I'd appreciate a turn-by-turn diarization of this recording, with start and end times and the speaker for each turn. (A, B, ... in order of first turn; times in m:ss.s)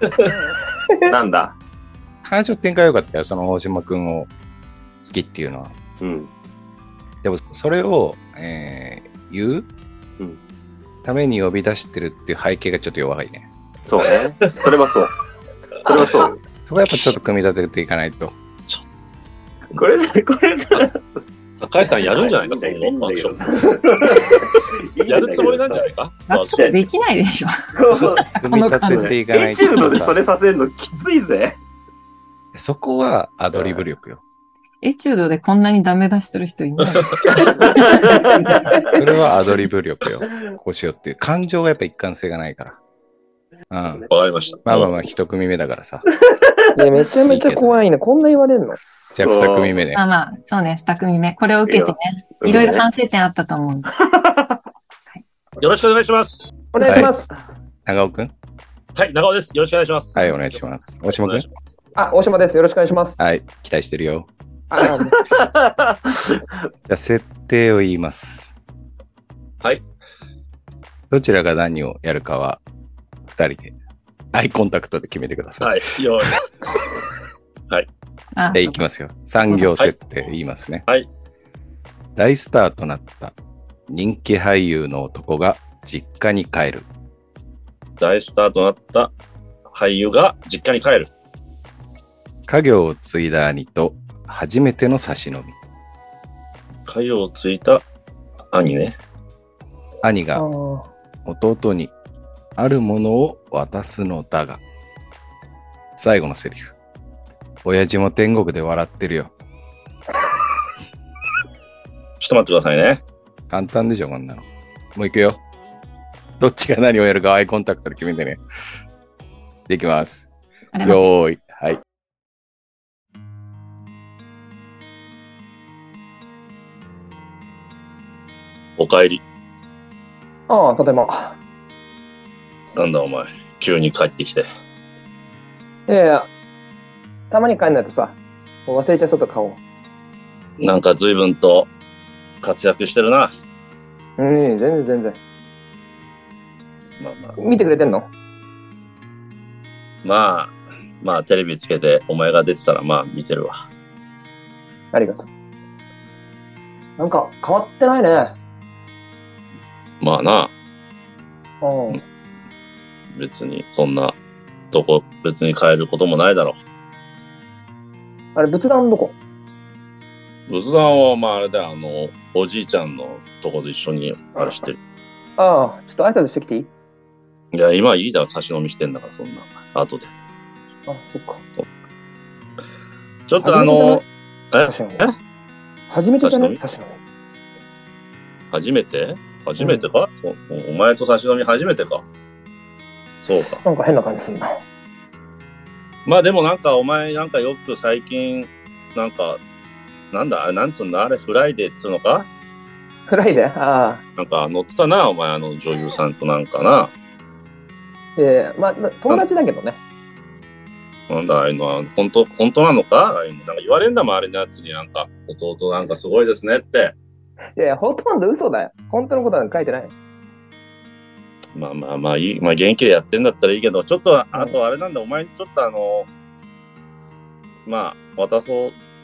0:01.0-0:01.5 A
0:02.2-0:04.3 B
0:05.0-0:05.7 B
0:06.0-0:06.3 A
0:07.2-0:09.7 B
0:11.0-0:13.5 B
0:13.8-0:15.1 A
0:15.8-0:16.4 A
0:16.6-0:18.3 B
0:19.7-0:21.0 A
0:21.6-0:24.4 C
0:21.8-0:25.9 A
0:25.0-0:26.8 C
0:26.3-0:29.2 D
0:27.7-0:28.3 A
0:28.4-0:30.2 B
0:28.9-0:31.6 A
0:32.5-0:34.2 B
0:33.5-0:33.8 A
0:34.8-0:38.4 D
0:37.4-0:38.8 A
0:38.3-0:39.0 E
0:38.9-0:42.8 B
0:43.7-0:44.1 B
0:44.1-0:44.9 C
0:44.6-0:46.0 B
0:46.8-0:48.8 E
0:47.2-0:47.7 B
0:48.8-0:49.7 A
0:49.1-0:50.0 B
0:49.9-0:53.9 D
0:51.6-0:52.8 A
0:53.9-0:54.6 A
0:55.6-0:56.5 C
0:56.7-0:57.3 E
0:56.8-0:57.1 B
0:57.8-0:58.3 B
0:59.0-1:00.3 C
1:00.1-1:01.4 B
1:01.2-1:01.5 C
1:02.0-1:03.2 E
1:03.2-1:04.3 B
1:04.7-1:05.2 E
1:05.3-1:06.4 A
1:06.9-1:08.5 B
1:11.1-1:12.6 B
1:13.2-1:13.7 B
1:14.3-1:16.2 B
1:15.6-1:16.5 C
1:18.3-1:18.8 D
1:18.5-1:20.8 B
1:22.2-1:23.3 B
1:23.9-1:26.9 B
1:28.0-1:29.1 C
1:29.7-1:31.1 C
1:32.5-1:35.5 B
1:36.9-1:37.8 C
1:38.5-1:39.0 C
1:40.0-1:40.4 B
1:40.3-1:40.9 E
1:41.2-1:41.9 B
1:42.6-1:44.6 B
1:46.0-1:46.7 B
1:47.6-1:49.3 B
1:52.2-1:53.0 C
1:53.5-1:55.4 B
1:56.4-1:58.4 B
1:59.7-2:00.3 B
2:00.7-2:01.0 D
2:00.8-2:01.8 B
2:08.8-2:09.2 C
2:10.5-2:11.4 E
2:12.7-2:14.5 C
2:15.9-2:16.3 E
2:17.3-2:19.6 E
2:20.6-2:21.7 C
2:22.4-2:23.3 C
2:24.2-2:25.2 E
2:27.0-2:27.4 C
2:27.4-2:28.1 E
2:30.0-2:33.6 C
2:34.9-2:35.3 E
2:37.0-2:38.3 E
2:40.0-2:40.5 C
2:41.6-2:42.0 E
2:43.1-2:44.2 C
2:44.7-2:46.6 C
2:48.3-2:49.2 E
2:50.5-2:54.8 C
2:55.4-2:56.7 E
2:57.5-3:00.1 C
3:00.9-3:01.4 E
3:03.3-3:05.2 C
3:03.4-3:04.0 E
3:04.6-3:05.1 E
3:05.9-3:07.0 E
3:06.2-3:06.6 C
3:08.5-3:12.0 C
3:09.6-3:09.8 E
3:13.2-3:13.6 C
3:13.6-3:14.6 E
3:16.0-3:19.4 C
3:20.1-3:22.3 C
3:23.1-3:24.0 E
3:24.2-3:26.9 C
3:28.2-3:29.8 E
3:31.1-3:37.0 C
3:37.6-3:39.9 E
3:41.5-3:46.1 C
3:47.6-3:48.8 C